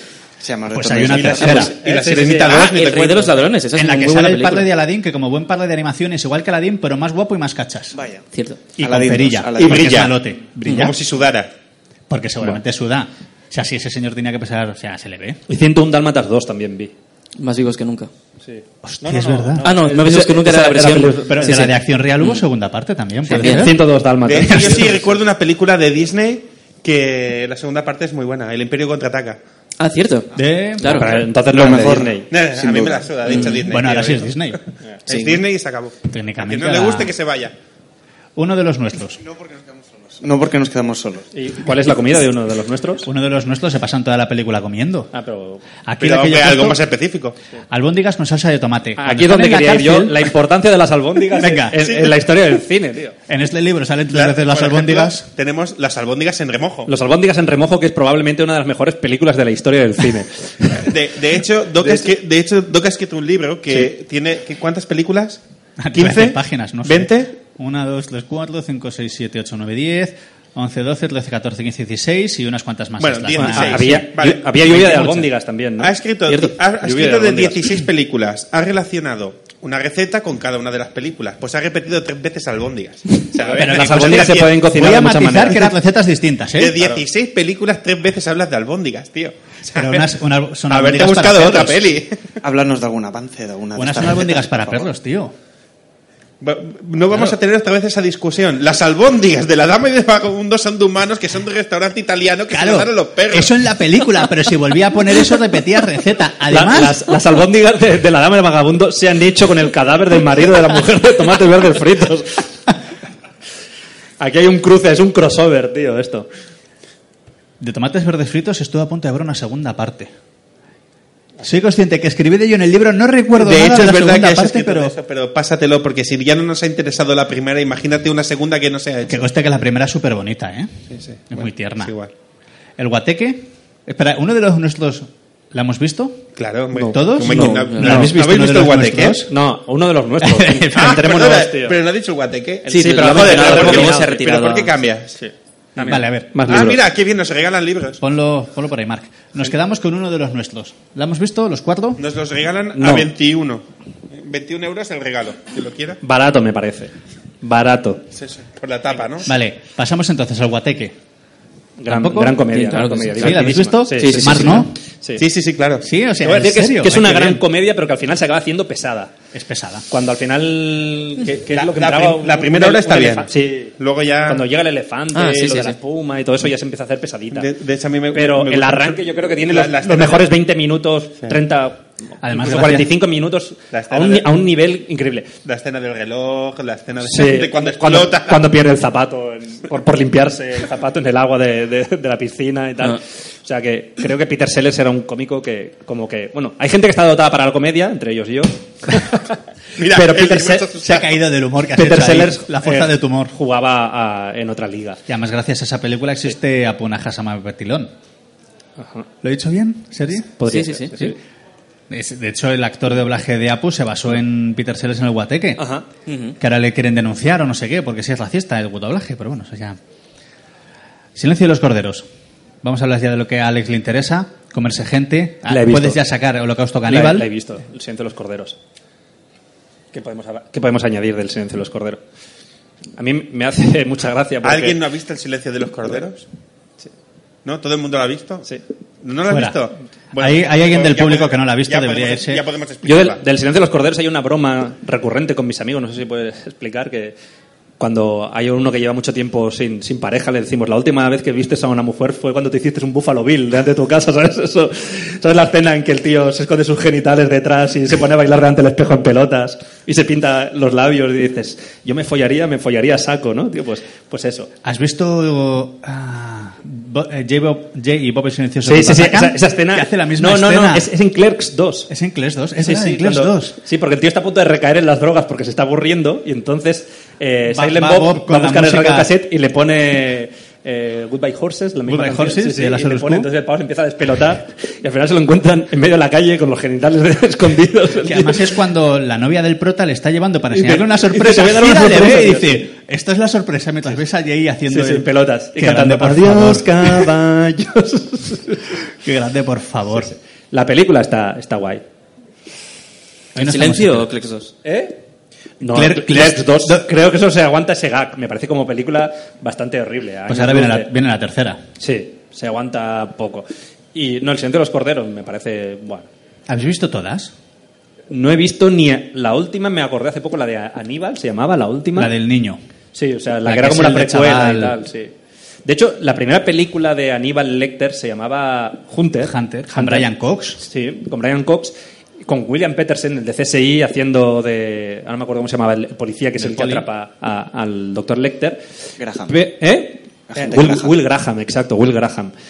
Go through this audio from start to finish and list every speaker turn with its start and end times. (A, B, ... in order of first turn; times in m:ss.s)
0:00.4-0:01.7 A
0:00.7-0:01.7 B
0:01.1-0:03.4 C
0:01.4-0:03.3 D
0:02.4-0:04.7 E
0:03.8-0:08.0 B
0:07.9-0:08.2 A
0:08.3-0:08.6 E
0:08.8-0:11.0 B
0:08.8-0:10.1 A
0:09.6-0:11.5 C
0:12.1-0:15.4 B
0:15.5-0:16.9 D
0:17.4-0:18.1 E
0:18.4-0:21.7 D
0:18.8-0:19.7 B
0:19.6-0:21.7 E
0:21.3-0:23.8 B
0:23.3-0:23.7 E
0:23.3-0:25.1 D
0:24.2-0:29.4 C
0:24.5-0:24.9 B
0:29.8-0:31.2 E
0:30.4-0:31.1 B
0:30.8-0:32.3 D
0:31.5-0:33.1 A
0:32.3-0:37.6 C
0:33.3-0:33.6 E
0:33.4-0:34.6 B
0:35.1-0:35.4 E
0:36.1-0:37.1 B
0:38.4-0:39.2 B
0:40.2-0:41.3 A
0:41.3-0:43.1 D
0:43.0-0:45.1 B
0:45.1-0:45.6 D
0:45.8-0:46.8 B
0:46.0-0:47.4 C
0:47.7-0:50.3 B
0:49.0-0:53.2 D
0:51.3-0:51.9 B
0:51.8-0:52.1 C
0:53.3-0:55.3 B
0:54.1-0:56.9 C
0:56.9-1:00.9 D
1:00.7-1:05.4 C
1:01.8-1:02.1 D
1:05.8-1:14.1 B
1:06.0-1:07.3 C
1:13.0-1:15.2 C
1:13.3-1:16.0 D
1:14.7-1:15.3 B
1:15.8-1:24.6 C
1:16.8-1:17.8 D
1:23.4-1:25.8 D
1:23.5-1:26.9 B
1:26.6-1:30.1 C
1:29.7-1:31.9 B
1:30.7-1:32.3 C
1:32.4-1:34.8 A
1:33.8-1:35.3 B
1:36.4-1:43.5 C
1:42.5-1:47.0 B
1:46.5-1:52.5 D
1:54.2-1:56.3 D
1:57.6-2:00.1 B
2:01.4-2:04.9 B
2:03.4-2:09.2 C
2:09.1-2:10.7 B
2:10.9-2:12.1 C
2:11.3-2:11.9 B
2:12.8-2:16.3 B
2:16.4-2:19.2 C
2:16.9-2:19.3 B
2:17.3-2:18.0 E
2:17.8-2:18.2 D
2:19.3-2:21.8 D
2:20.2-2:21.0 B
2:20.7-2:25.2 C
2:22.6-2:24.2 D
2:22.7-2:24.8 E
2:25.2-2:26.8 D
2:25.8-2:26.3 B
2:26.4-2:28.0 C
2:28.0-2:32.0 B
2:32.0-2:36.0 C
2:32.8-2:33.1 D
2:36.0-2:38.0 D
2:38.2-2:39.4 C
2:39.3-2:41.0 B
2:41.8-2:45.2 D
2:41.9-2:42.6 B
2:42.5-2:44.7 E
2:43.1-2:44.7 B
2:45.2-2:45.9 C
2:45.8-2:47.4 B
2:46.2-2:49.1 D
2:49.3-2:49.8 B
2:49.9-2:57.5 D
2:51.5-2:54.5 C
2:55.1-2:55.8 E
2:57.3-3:00.3 C
2:58.1-3:05.3 D
3:02.2-3:02.9 B
3:03.7-3:04.3 C
3:05.4-3:08.5 C
3:07.0-3:20.7 D
3:19.8-3:21.1 C
3:20.8-3:23.3 B
3:21.8-3:25.0 D
3:25.1-3:27.9 B
3:28.8-3:29.1 D
3:29.2-3:30.3 B
3:30.4-3:31.2 D
3:30.5-3:31.1 E
3:31.9-3:35.7 B
3:35.6-3:35.9 D
3:36.1-3:36.4 E
3:36.4-3:39.8 B
3:41.2-3:42.1 B
3:42.6-3:47.3 B
3:45.5-3:46.0 D
3:46.9-3:48.6 D
3:49.9-3:52.0 D
3:53.0-3:54.8 D
3:54.4-3:56.2 C
3:57.4-3:58.5 C
3:59.0-4:03.2 C
3:59.3-3:59.6 B
4:00.2-4:02.4 B
4:02.8-4:07.2 D
4:07.8-4:24.5 D
4:24.6-4:30.9 B
4:28.6-4:31.9 D
4:31.9-4:33.6 B
4:32.6-4:48.4 D
4:37.5-4:39.1 B
4:41.9-4:43.3 B
4:48.0-4:57.1 B
4:50.5-4:52.7 D
4:54.7-4:58.8 D
4:59.0-5:00.1 B
5:00.0-5:01.8 D
5:03.4-5:04.1 B
5:03.4-5:04.5 E
5:04.6-5:05.0 D
5:05.6-5:10.9 D
5:05.7-5:06.9 B
5:10.3-5:11.6 B
5:11.8-5:16.1 D
5:16.5-5:17.3 B
5:18.1-5:22.1 D
5:22.0-5:22.6 B
5:22.9-5:25.1 D
5:23.4-5:24.8 B
5:25.6-5:30.1 D
5:29.2-5:30.6 B
5:30.6-5:38.6 D
5:36.4-5:36.9 B
5:39.0-5:39.5 A
5:39.3-5:42.3 D
5:40.3-5:40.9 A